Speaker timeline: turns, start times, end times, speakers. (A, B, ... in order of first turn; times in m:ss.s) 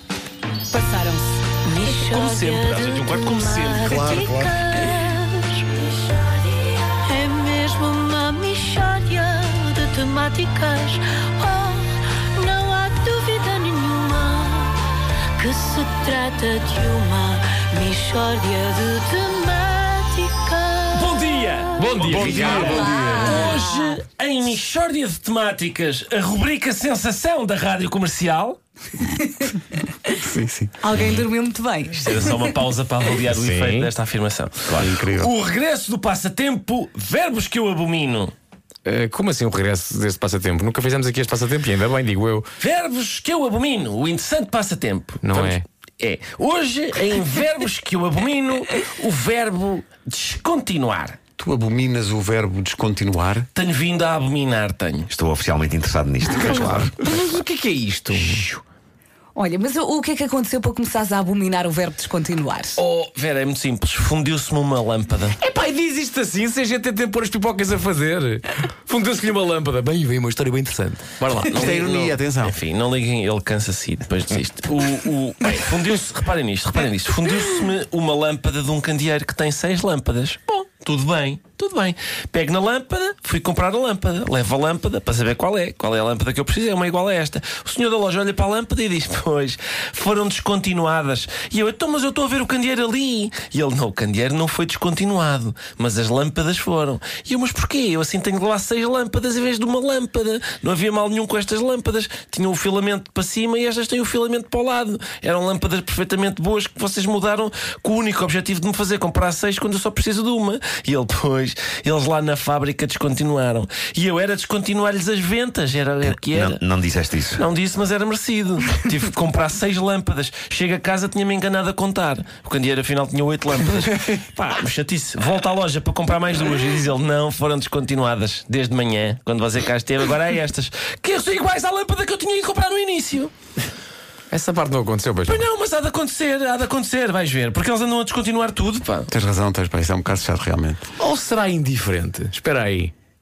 0:00.7-0:01.4 A
0:01.5-0:06.2 B
0:01.8-0:04.3 C
0:03.8-0:04.9 D
0:06.8-0:22.0 B
0:20.9-0:28.6 C
0:21.8-0:23.0 E
0:22.0-0:23.6 D
0:22.6-0:23.9 B
0:30.1-0:30.7 D
0:30.8-0:32.2 A
0:31.9-0:38.3 C
0:33.3-0:33.9 E
0:34.7-0:35.3 D
0:38.8-0:42.5 E
0:42.6-0:51.2 C
0:45.2-0:45.6 E
0:51.4-0:53.4 D
0:53.5-0:55.1 C
0:55.1-0:56.9 F
0:56.2-0:56.9 D
0:56.7-0:58.6 E
0:58.2-0:58.4 C
0:59.4-1:02.8 A
1:02.8-1:05.4 C
1:05.4-1:11.6 E
1:11.4-1:56.6 C
1:11.5-1:12.6 D
1:56.3-1:57.4 F
1:57.4-2:13.3 C
2:14.3-2:15.4 E
2:15.2-2:19.1 C
2:19.1-2:20.9 D
2:21.0-2:22.9 E